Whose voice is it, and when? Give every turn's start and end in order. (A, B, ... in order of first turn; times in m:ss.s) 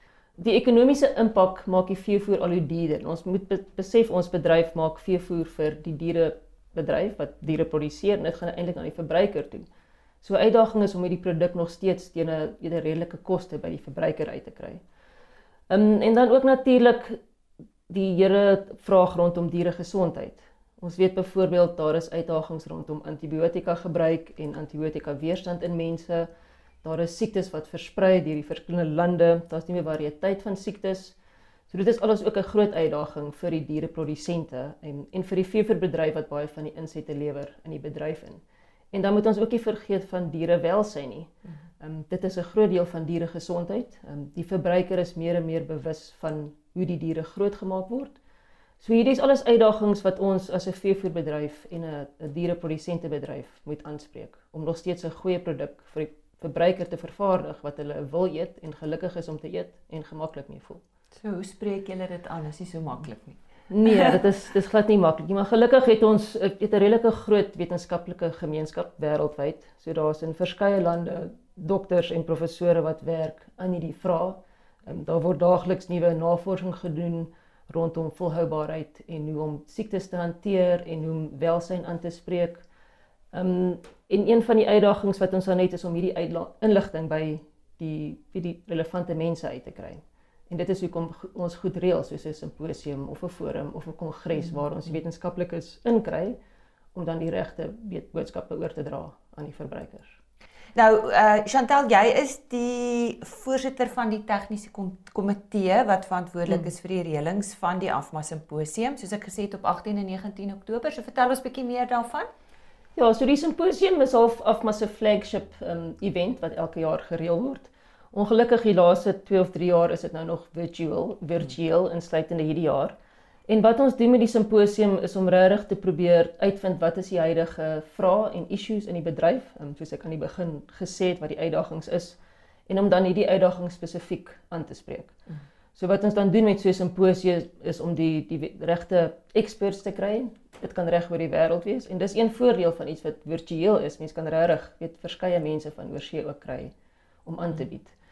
0:00.4-0:09.7 A
0:10.2-0:14.8 A
0:15.7-0:17.2 A
0:17.9-0:26.3 A
0:26.8-0:31.2 A
0:31.7-0:48.2 A
0:48.8-1:00.8 A
1:01.1-1:04.2 B
1:03.7-1:22.6 A
1:23.3-1:36.4 A
1:34.4-1:35.0 B
1:37.0-1:40.2 A
1:40.7-1:52.3 B
1:53.0-2:03.0 A
2:03.5-2:15.2 A
2:15.8-2:26.7 A
2:27.2-2:28.0 A